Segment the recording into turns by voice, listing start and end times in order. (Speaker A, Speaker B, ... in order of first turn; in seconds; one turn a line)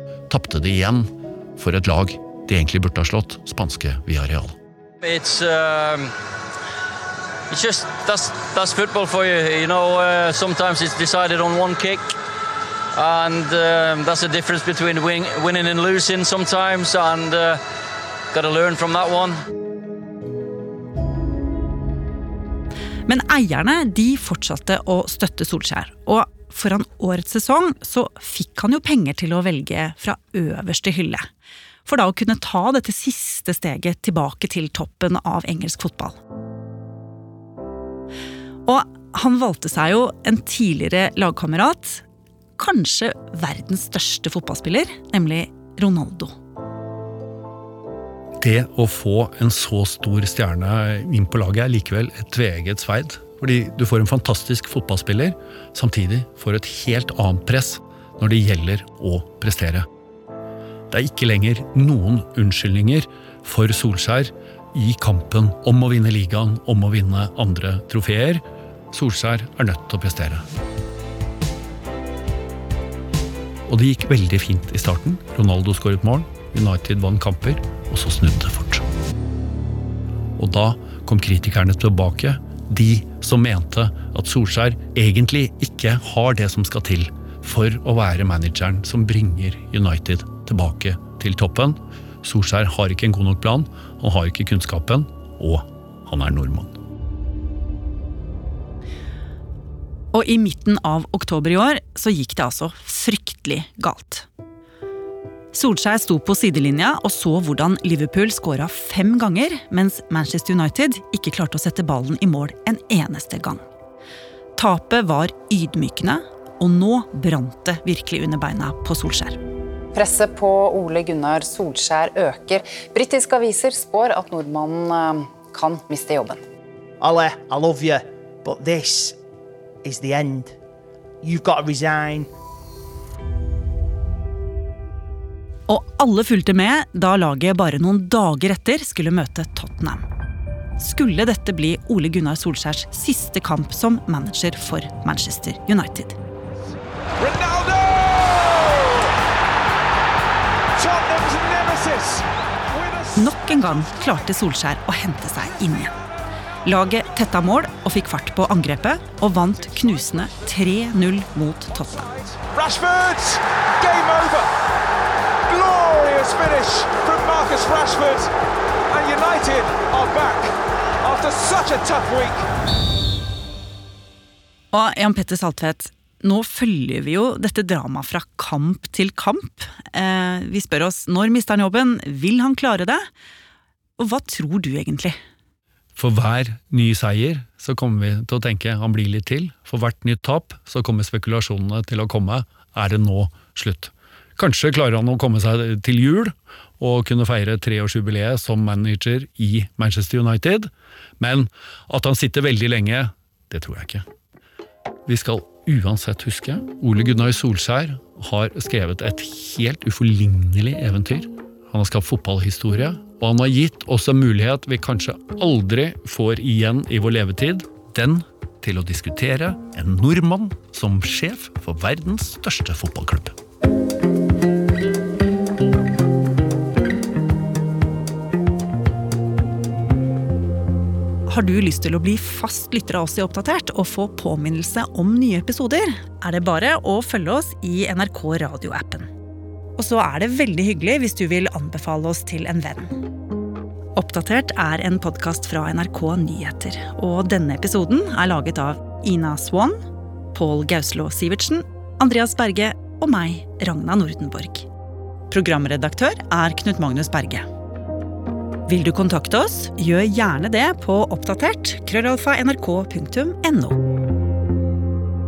Speaker A: 0.3-4.6
Speaker B: 5.0-6.1
Speaker B: 7.5-12.1
Speaker B: 12.9-17.6
Speaker B: 18.3-19.4
Speaker C: 23.1-31.3
Speaker C: 31.9-36.2
Speaker C: 38.7-42.0
Speaker C: 42.6-46.3
Speaker A: 48.4-59.9
Speaker A: 60.9-70.5
Speaker A: 73.7-78.8
Speaker A: 80.4-96.8
Speaker C: 100.1-104.3
Speaker C: 105.5-113.6
Speaker C: 114.6-119.4
Speaker D: 119.9-126.4
Speaker E: 127.0-129.2
Speaker E: 129.8-130.6
Speaker E: 131.2-132.3
Speaker C: 135.7-140.0
Speaker C: 140.8-146.2
Speaker F: 147.2-149.1
Speaker F: 150.8-153.3
Speaker C: 153.2-155.9
Speaker C: 156.7-162.3
Speaker F: 162.4-164.5
Speaker F: 165.5-168.3
Speaker F: 168.9-172.5
Speaker C: 174.7-183.1
Speaker C: 184.0-185.2
Speaker A: 186.0-204.1
Speaker A: 205.1-223.4
Speaker C: 231.3-239.1
Speaker C: 239.8-243.0
Speaker C: 243.9-249.8
Speaker C: 250.3-254.7
Speaker C: 255.3-257.5
Speaker C: 258.7-263.8